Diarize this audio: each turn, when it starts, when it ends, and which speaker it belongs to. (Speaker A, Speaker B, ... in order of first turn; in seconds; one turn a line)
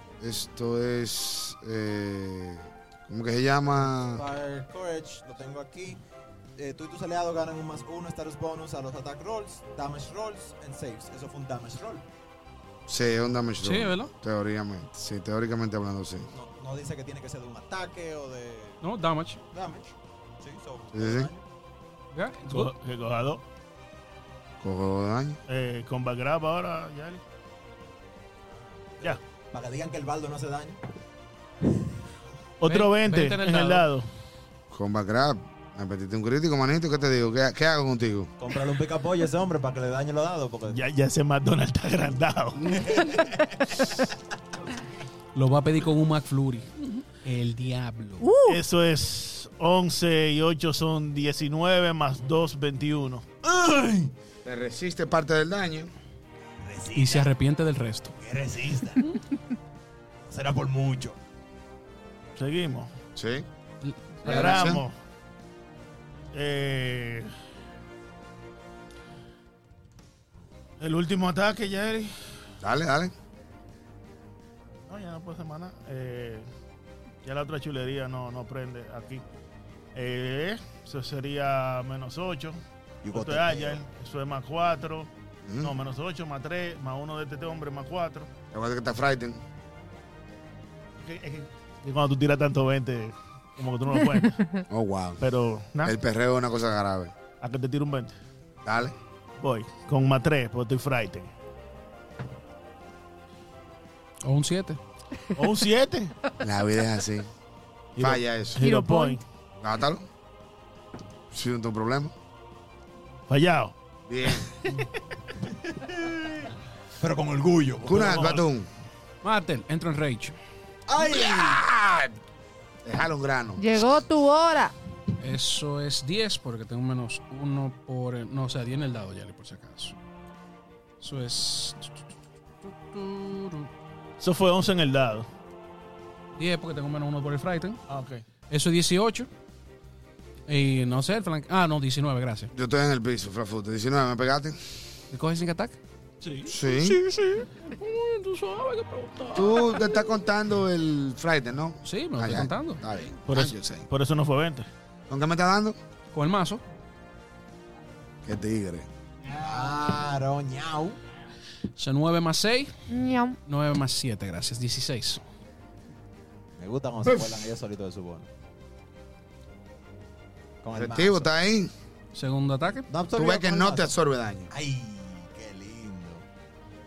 Speaker A: 0.2-4.2
Speaker B: 4.1-6.0
Speaker B: 6.5-12.1
Speaker A: 12.9-16.3
Speaker C: 13.6-14.1
Speaker B: 16.3-18.8
Speaker C: 18.8-19.4
Speaker B: 19.5-21.4
Speaker A: 20.9-21.3
Speaker C: 22.1-22.7
Speaker D: 22.4-23.4
Speaker A: 24.6-25.4
Speaker D: 25.5-27.2
Speaker B: 28.5-30.8
Speaker D: 32.6-34.1
Speaker C: 32.6-33.9
Speaker A: 34.7-38.3
Speaker B: 38.4-40.8
Speaker D: 40.7-42.9
Speaker B: 42.7-43.5
Speaker C: 45.3-48.3
Speaker E: 48.2-48.6
Speaker D: 48.5-53.2
Speaker B: 53.4-54.1
Speaker A: 54.4-55.9
Speaker B: 56.6-57.3
Speaker C: 56.9-58.1
Speaker B: 58.2-59.1
Speaker B: 60.3-61.2
Speaker D: 62.4-62.9
Speaker A: 63.1-63.5
Speaker C: 63.8-64.7
Speaker D: 64.2-64.9
Speaker A: 64.2-64.8
Speaker D: 66.3-67.3
Speaker D: 70.8-72.4
Speaker A: 72.6-73.1
Speaker D: 74.9-76.5
Speaker D: 77.2-79.2
Speaker D: 79.9-82.6
Speaker B: 83.0-83.8
Speaker D: 83.1-85.1
Speaker A: 85.4-85.7
Speaker D: 85.6-88.3
Speaker A: 88.5-89.4
Speaker D: 91.0-94.6
Speaker A: 94.7-95.2
Speaker D: 95.2-95.9
Speaker A: 95.8-97.1
Speaker D: 97.4-98.2
Speaker A: 98.6-98.9
Speaker D: 99.4-101.3
Speaker C: 104.2-104.8
Speaker D: 105.3-106.1
Speaker A: 106.4-107.3
Speaker D: 108.0-109.2
Speaker A: 108.0-108.6
Speaker E: 108.6-109.2
Speaker A: 109.6-110.1
Speaker A: 111.3-112.1
Speaker D: 113.3-113.7
Speaker A: 114.1-114.5
Speaker B: 115.4-118.4
Speaker A: 117.8-118.7
Speaker D: 117.9-118.4
Speaker C: 119.2-120.4
Speaker B: 120.9-121.6
Speaker A: 121.0-122.2
Speaker A: 122.8-123.6
Speaker E: 123.6-124.8
Speaker C: 125.2-129.9
Speaker C: 131.0-132.0
Speaker C: 132.6-133.7
Speaker D: 134.2-135.3
Speaker C: 136.3-137.8
Speaker D: 137.9-138.2
Speaker C: 138.5-139.3
Speaker C: 140.5-142.5
Speaker A: 142.5-144.8
Speaker C: 145.1-145.8
Speaker D: 146.2-146.5
Speaker A: 146.5-147.0
Speaker C: 146.7-150.1
Speaker A: 149.3-153.9
Speaker C: 151.8-152.8
Speaker D: 153.3-154.7
Speaker A: 155.1-155.8
Speaker C: 156.1-156.6
Speaker A: 158.2-158.9
Speaker B: 159.3-161.0
Speaker C: 161.7-162.7
Speaker E: 162.9-163.4
Speaker C: 163.4-165.2
Speaker B: 166.6-168.3
Speaker B: 170.6-171.3
Speaker A: 170.7-171.7
Speaker C: 172.1-172.9
Speaker B: 172.9-173.9
Speaker A: 173.1-174.5
Speaker B: 174.5-176.2